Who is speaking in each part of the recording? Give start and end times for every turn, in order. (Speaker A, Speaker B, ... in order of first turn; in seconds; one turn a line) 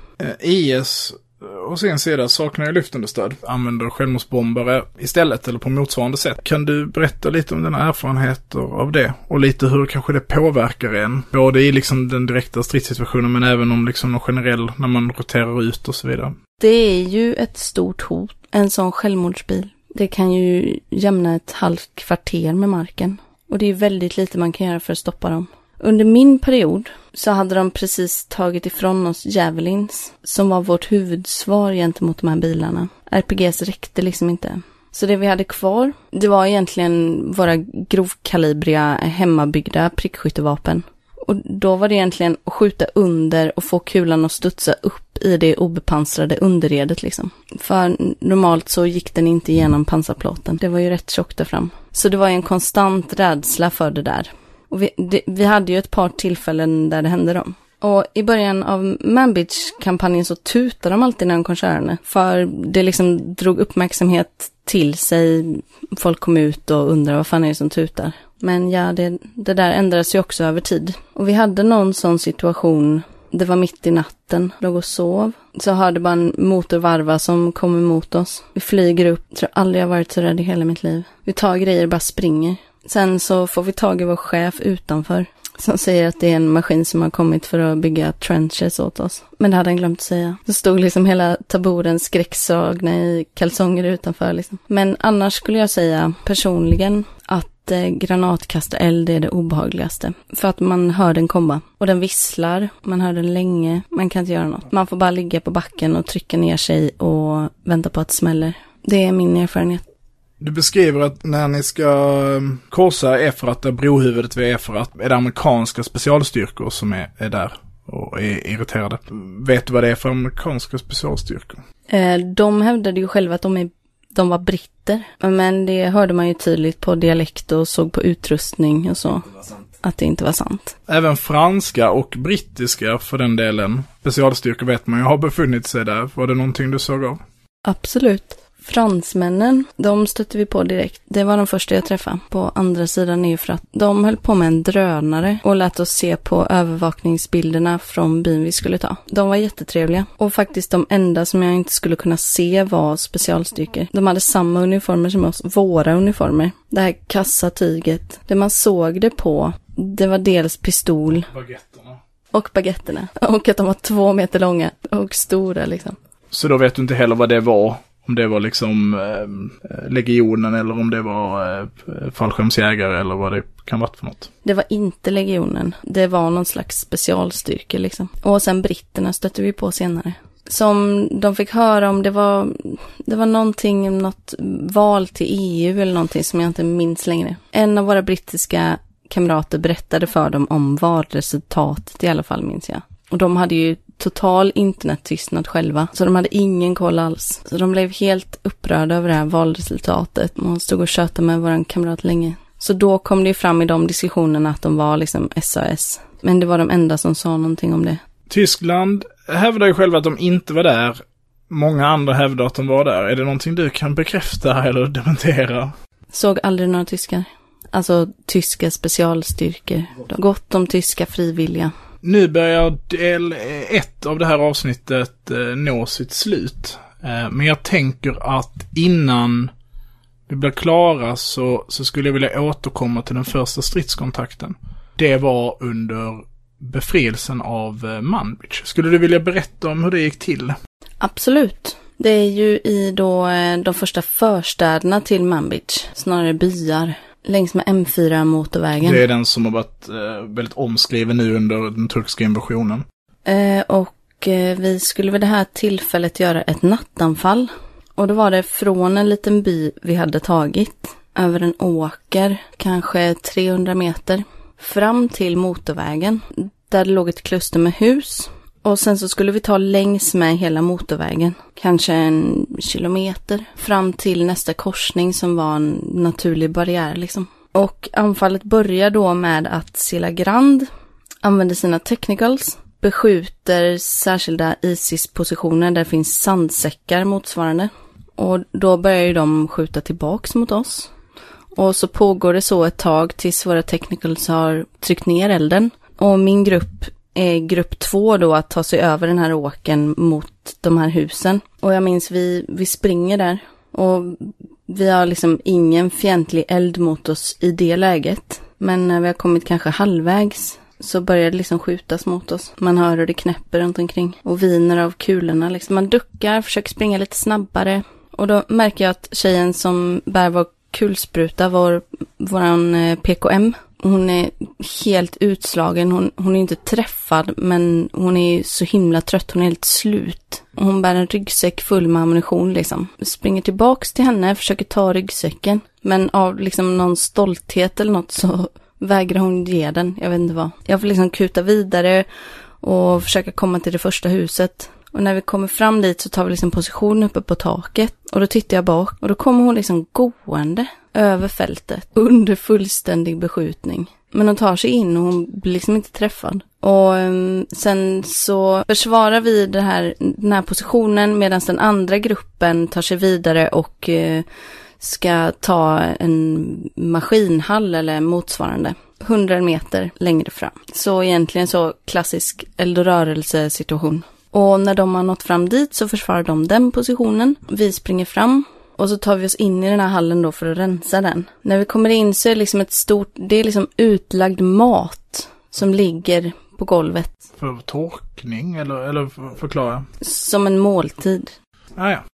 Speaker A: 0.2-16.4
Speaker B: 16.6-109.9
Speaker A: 110.4-121.6
Speaker B: 121.9-129.2
Speaker B: 129.8-130.8
Speaker A: 130.9-137.2
Speaker B: 137.7-161.3
Speaker A: 161.3-162.0
Speaker B: 162.3-166.0
Speaker A: 166.3-174.3
Speaker B: 174.4-208.0
Speaker A: 208.3-215.7
Speaker B: 216.1-221.7
Speaker A: 222.0-229.5
Speaker A: 230.3-240.6
Speaker B: 241.0-249.0
Speaker A: 248.8-252.8
Speaker B: 253.3-280.7
Speaker B: 281.2-290.9
Speaker B: 291.6-342.1
Speaker B: 342.6-364.3
Speaker B: 364.8-387.2
Speaker A: 387.4-389.9
Speaker B: 390.0-391.3
Speaker A: 391.8-392.0